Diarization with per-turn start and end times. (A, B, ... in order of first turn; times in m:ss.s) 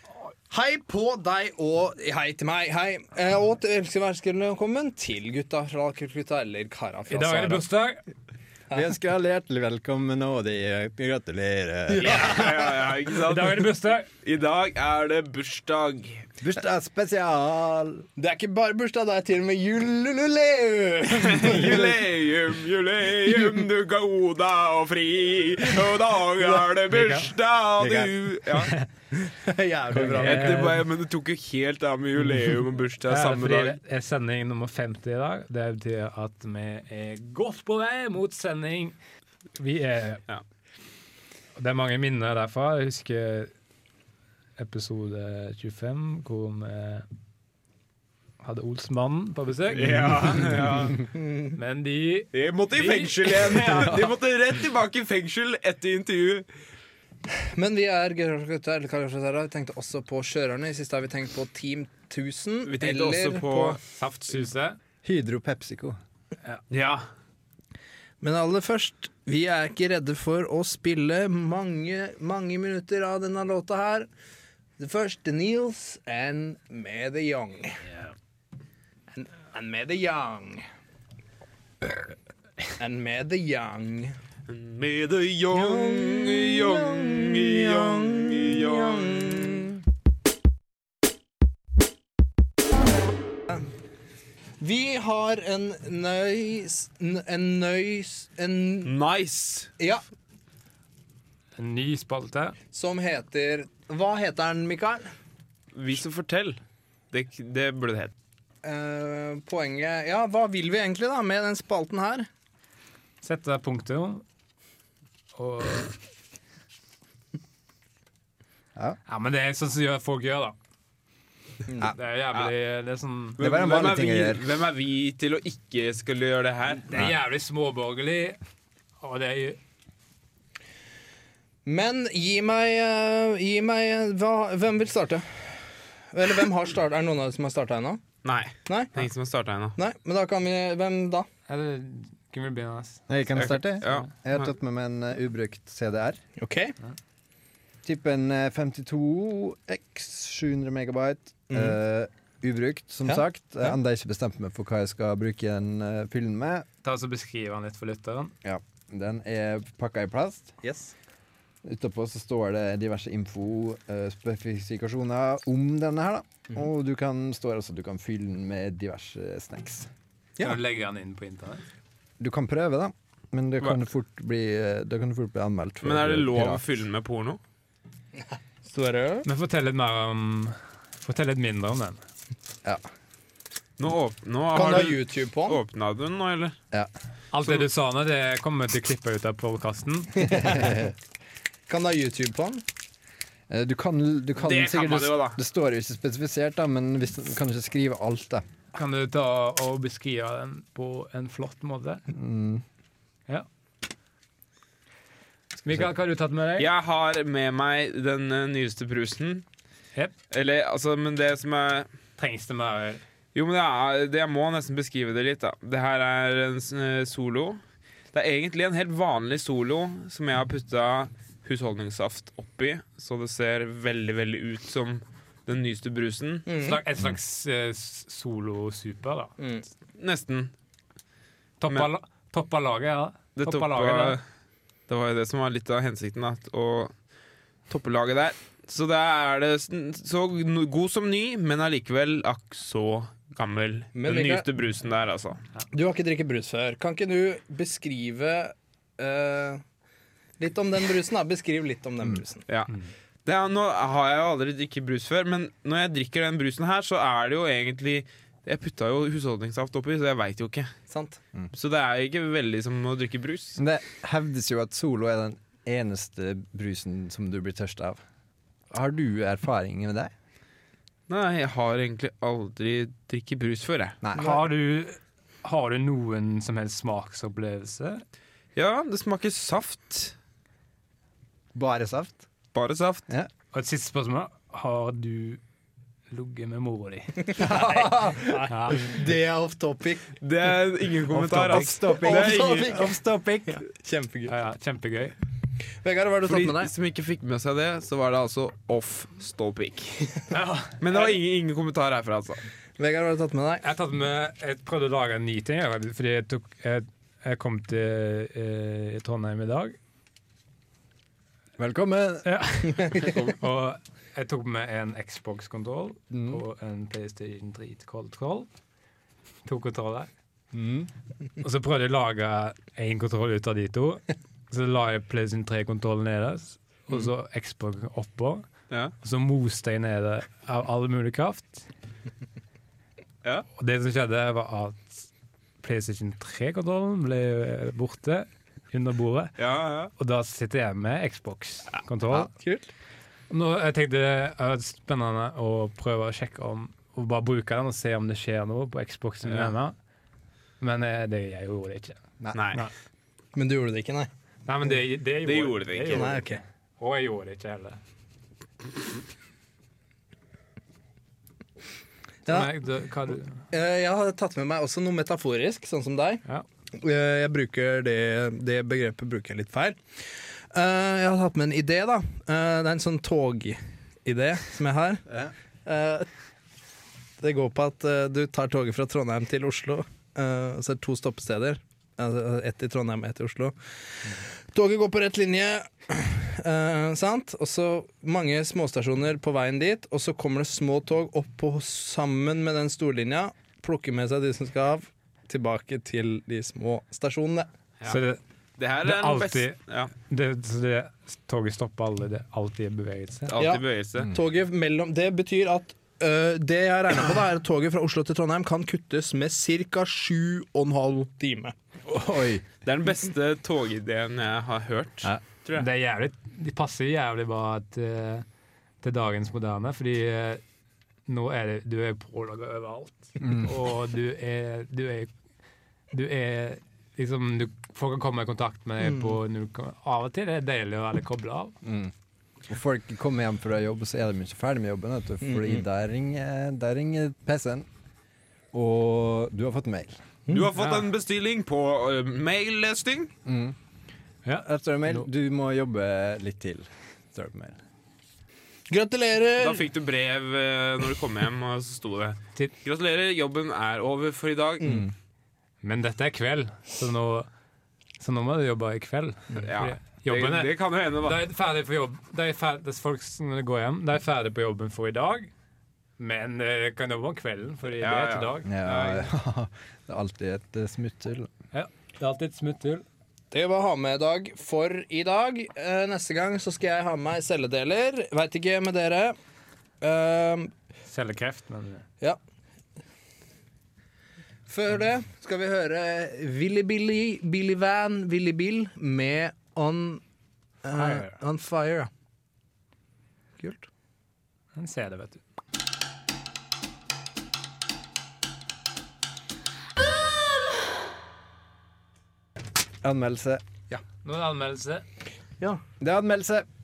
0:00.5-0:07.7 A
0:07.1-0:08.0 B
0:08.7-0:12.6 C
0:11.9-0:12.5 A
0:12.0-0:13.7 D
0:13.3-0:14.1 B
0:14.2-0:16.3 D
0:16.4-0:18.1 C
0:18.2-0:21.9 A
0:21.1-0:28.7 D
0:26.9-0:27.3 B
0:27.8-0:28.1 C
0:29.1-0:30.8 A
0:29.9-0:30.8 B
0:30.0-0:33.8 D
0:33.1-0:39.0 B
0:39.6-0:40.2 B
0:41.6-0:43.5 B
0:44.6-0:47.1 B
0:48.4-0:51.0 B
0:49.7-0:51.0 D
0:51.2-0:51.6 A
0:51.6-0:53.9 B
0:52.3-0:56.5 D
0:57.5-1:03.8 A
1:02.6-1:03.8 D
1:04.0-1:04.8 B
1:05.0-1:06.0 C
1:06.7-1:07.0 D
1:08.2-1:14.1 A
1:14.8-1:17.8 A
1:19.1-1:20.6 A
1:22.8-1:24.2 A
1:24.5-1:29.7 D
1:25.5-1:29.8 A
1:34.6-1:38.9 A
1:38.8-1:39.7 D
1:39.8-1:40.0 A
1:41.6-1:42.6 B
1:42.7-1:45.1 A
1:45.8-1:46.6 D
1:47.1-1:48.1 D
1:48.6-1:52.3 A
1:53.2-1:54.2 B
1:55.4-1:56.0 B
1:59.1-2:00.6 B
2:01.9-2:03.4 B
2:03.4-2:06.9 D
2:03.4-2:04.5 C
2:06.9-2:08.4 B
2:09.0-2:09.6 B
2:11.7-2:15.6 A
2:16.1-2:18.0 A
2:18.2-2:19.8 D
2:18.7-2:19.0 A
2:19.8-2:21.3 A
2:21.5-2:24.1 B
2:23.1-2:26.2 C
2:23.8-2:24.4 D
2:26.4-2:26.8 A
2:27.8-2:36.7 C
2:31.5-2:31.8 A
2:33.0-2:33.8 A
2:36.8-2:38.3 B
2:38.4-2:40.6 C
2:40.6-2:40.9 A
2:41.6-2:49.9 C
2:50.4-2:51.6 B
2:52.2-2:56.6 C
2:55.8-2:57.4 D
2:58.7-2:59.3 A
2:59.2-3:02.0 B
3:03.8-3:06.6 D
3:04.5-3:05.6 A
3:07.3-3:10.6 B
3:10.2-3:10.9 A
3:11.7-3:12.6 A
3:13.5-3:18.4 C
3:14.4-3:15.4 D
3:18.7-3:22.0 B
3:22.1-3:22.6 C
3:25.6-3:26.7 B
3:26.6-3:29.4 D
3:30.3-3:31.9 D
3:32.2-3:33.0 B
3:33.4-3:37.6 D
3:38.1-3:46.5 D
3:46.5-3:46.8 A
3:46.6-3:49.3 B
3:49.4-3:49.7 A
3:50.0-3:50.5 D
3:51.6-3:54.2 B
3:53.4-3:54.2 D
3:54.9-3:56.9 D
3:57.7-4:05.4 D
4:03.9-4:04.5 A
4:05.7-4:09.6 A
4:10.4-4:12.5 A
4:13.2-4:20.7 D
4:20.9-4:21.2 A
4:21.5-4:23.6 D
4:23.6-4:28.0 C
4:28.7-4:30.1 C
4:31.1-4:34.0 D
4:34.0-4:34.4 C
4:34.2-4:38.0 B
4:38.6-4:40.2 D
4:41.5-4:42.3 C
4:42.5-4:43.1 D
4:43.5-4:45.4 B
4:46.1-4:47.9 B
4:47.2-4:50.2 A
4:47.4-4:48.4 C
4:48.5-4:48.9 B
4:50.2-4:52.7 D
4:51.1-4:53.6 C
4:51.6-4:53.0 A
4:53.5-4:54.3 A
4:54.3-4:55.2 B
4:55.8-4:56.7 A
4:56.3-5:00.1 D
5:00.3-5:00.8 B
5:00.8-5:02.5 D
5:00.9-5:01.2 A
5:02.8-5:03.7 A
5:03.6-5:09.8 B
5:11.6-5:12.3 C
5:12.2-5:18.5 B
5:16.1-5:16.4 C
5:19.4-5:20.1 B
5:20.5-5:20.9 C
5:21.4-5:28.5 B
5:29.0-5:31.7 B
5:33.6-5:35.1 B
5:35.6-5:39.4 B
5:39.4-5:39.9 D
5:40.0-5:42.3 B
5:42.1-5:42.7 A
5:43.3-5:49.8 B
5:49.2-5:49.5 D
5:50.6-5:52.0 B
5:52.3-5:52.6 D
5:53.4-5:54.1 A
5:54.5-5:57.8 B
5:55.2-5:56.1 D
5:55.9-5:56.4 A
6:02.3-6:02.5 A
6:02.3-6:03.4 B
6:03.5-6:06.2 A
6:06.8-6:15.0 A
6:15.1-6:15.3 C
6:15.6-6:16.1 A
6:17.2-6:37.5 A
6:37.9-6:38.2 B
6:38.6-6:39.9 D
6:38.8-6:43.4 B
6:43.3-6:44.1 D
6:43.4-6:51.6 A
6:51.9-6:52.5 C
6:52.6-6:55.7 D
6:55.6-6:58.3 B
6:58.8-7:00.4 B
7:01.1-7:05.1 B
7:03.2-7:03.5 C
7:05.9-7:11.6 B
7:08.8-7:09.1 A
7:11.6-7:11.9 C
7:12.5-7:17.7 C
7:15.2-7:15.6 A
7:18.5-7:20.0 C
7:20.3-7:23.1 D
7:20.6-7:20.9 B
7:23.3-7:23.6 C
7:24.2-7:25.1 B
7:24.4-7:27.6 C
7:28.7-7:29.6 A
7:29.4-7:34.8 D
7:34.6-7:34.9 A
7:35.6-7:37.3 B
7:38.0-7:45.3 B
7:39.4-7:41.2 D
7:46.0-7:49.0 B
7:47.8-7:48.4 D
7:48.4-7:51.3 C
7:51.5-7:52.8 B
7:53.3-7:59.2 A
7:59.8-8:00.5 A
8:00.9-8:01.9 B
8:04.5-8:10.0 A
8:10.6-8:11.9 A
8:10.7-8:11.2 B
8:13.4-8:13.7 A
8:14.6-8:15.2 B
8:22.8-8:23.4 C
8:24.0-8:24.8 B
8:25.8-8:26.5 C